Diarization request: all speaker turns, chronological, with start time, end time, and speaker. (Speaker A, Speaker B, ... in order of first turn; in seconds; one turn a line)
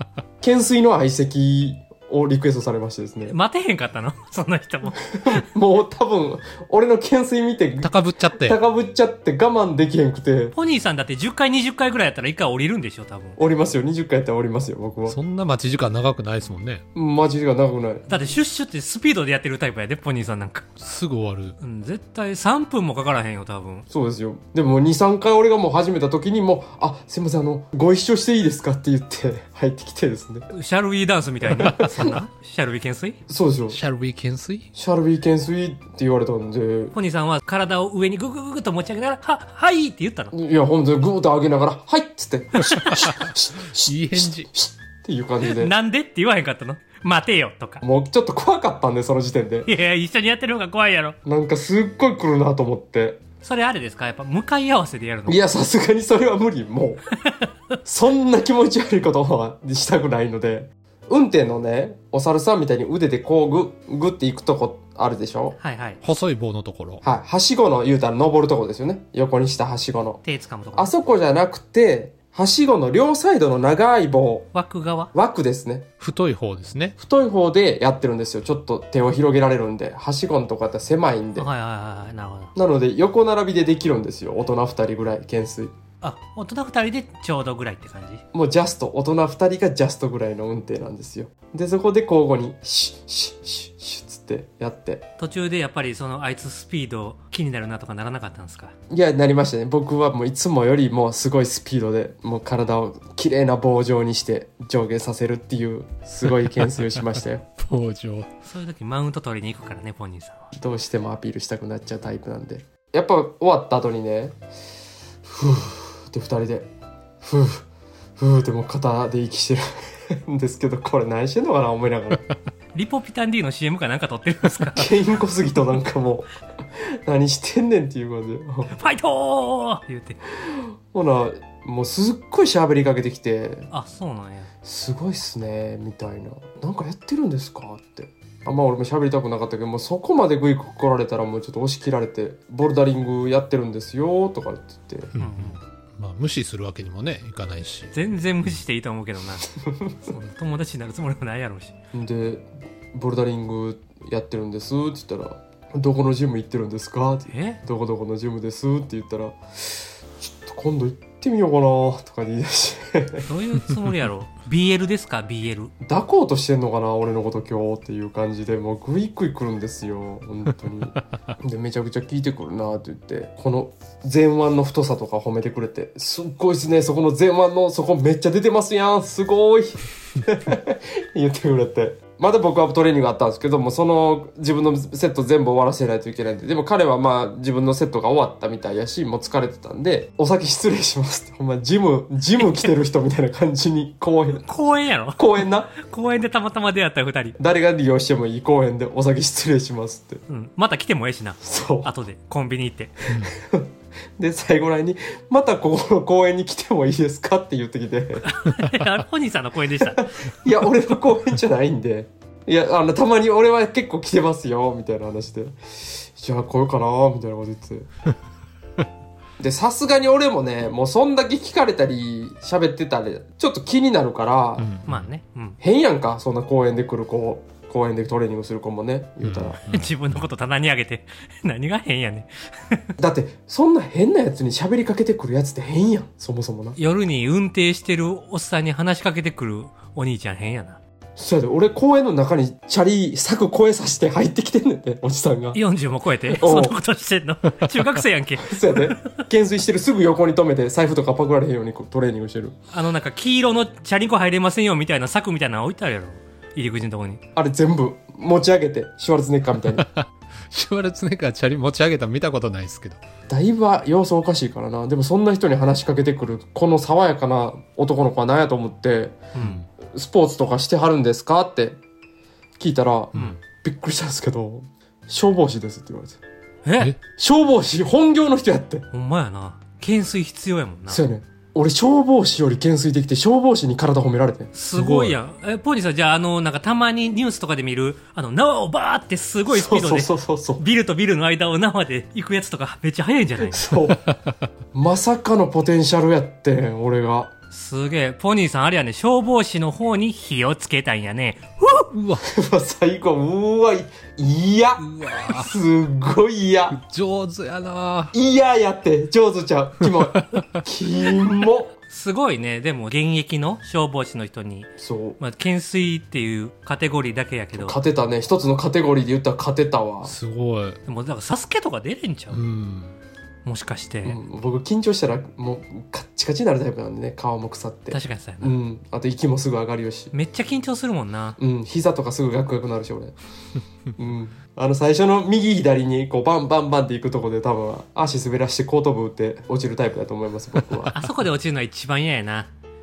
Speaker A: 0.4-3.3
Speaker B: 3.2-5.3
Speaker A: 5.0-10.5
Speaker C: 7.8-8.6
Speaker B: 10.5-13.4
Speaker A: 13.4-15.2
Speaker C: 15.1-16.8
Speaker A: 16.9-18.1
Speaker B: 18.1-20.7
Speaker C: 20.8-21.6
Speaker B: 21.6-23.9
Speaker A: 23.9-30.5
Speaker B: 30.5-33.2
Speaker A: 31.6-32.2
Speaker A: 33.3-33.8
Speaker C: 33.7-34.7
Speaker A: 34.7-36.9
Speaker B: 36.9-40.3
Speaker A: 40.3-45.7
Speaker C: 42.8-44.5
Speaker B: 45.4-47.8
Speaker A: 47.8-49.7
Speaker B: 49.6-51.2
Speaker A: 51.2-53.2
Speaker B: 53.4-55.4
Speaker A: 55.3-57.0
Speaker B: 57.2-57.5
Speaker A: 57.8-65.6
Speaker B: 65.6-66.0
Speaker C: 66.0-67.0
Speaker A: 67.0-70.2
Speaker B: 70.2-70.9
Speaker A: 70.7-74.5
Speaker B: 74.5-75.1
Speaker A: 75.1-75.9
Speaker C: 76.0-77.0
Speaker A: 77.0-81.5
Speaker B: 81.4-82.5
Speaker A: 82.5-85.7
Speaker B: 86.0-88.2
Speaker A: 88.3-95.1
Speaker B: 95.2-98.7
Speaker A: 98.9-107.5
Speaker C: 106.2-107.0
Speaker C: 107.6-108.3
Speaker B: 108.4-110.5
Speaker A: 110.5-114.4
Speaker A: 115.2-116.7
Speaker A: 117.2-117.6
Speaker A: 118.2-122.2
Speaker B: 122.7-124.9
Speaker A: 124.7-126.3
Speaker A: 127.0-128.7
Speaker B: 128.7-130.2
Speaker A: 130.4-133.7
Speaker B: 133.7-134.5
Speaker A: 134.6-145.1
Speaker C: 145.1-147.9
Speaker B: 145.2-145.6
Speaker B: 147.9-151.7
Speaker A: 151.9-163.2
Speaker B: 157.3-157.6
Speaker B: 163.2-165.7
Speaker A: 165.8-194.5
Speaker B: 194.3-197.4
Speaker A: 195.2-195.7
Speaker A: 197.4-200.2
Speaker B: 200.3-203.1
Speaker A: 201.4-201.9
Speaker C: 203.1-203.3
Speaker A: 203.2-208.2
Speaker B: 208.2-210.0
Speaker A: 209.8-217.9
Speaker A: 219.4-224.7
Speaker C: 224.6-225.1
Speaker B: 224.9-225.6
Speaker A: 225.6-229.6
Speaker C: 229.2-229.9
Speaker B: 229.7-232.8
Speaker A: 233.0-236.8
Speaker B: 236.8-240.8
Speaker A: 241.2-245.6
Speaker B: 245.5-249.1
Speaker A: 246.3-246.8
Speaker A: 248.4-252.6
Speaker B: 252.7-257.2
Speaker A: 257.3-259.9
Speaker C: 259.6-263.0
Speaker A: 263.3-269.2
Speaker B: 269.3-269.7
Speaker A: 269.8-271.8
Speaker A: 272.6-276.2
Speaker B: 276.6-276.9
Speaker A: 277.2-278.8
Speaker B: 278.9-281.1
Speaker A: 280.9-284.5
Speaker B: 284.5-293.7
Speaker C: 284.7-285.2
Speaker A: 289.5-290.6
Speaker A: 293.5-294.1
Speaker A: 294.7-297.3
Speaker B: 297.5-301.9
Speaker C: 301.9-302.3
Speaker A: 302.2-306.8
Speaker C: 304.8-305.5
Speaker C: 306.7-308.1
Speaker A: 308.1-311.8
Speaker C: 309.8-310.4
Speaker B: 311.9-317.8
Speaker A: 314.8-315.2
Speaker A: 317.5-320.1
Speaker C: 320.0-320.8
Speaker B: 320.9-322.4
Speaker C: 322.3-323.0
Speaker B: 323.4-324.2
Speaker A: 324.0-330.1
Speaker B: 327.9-328.6
Speaker B: 330.1-331.4
Speaker A: 331.4-333.1
Speaker A: 334.0-340.9
Speaker B: 340.9-342.5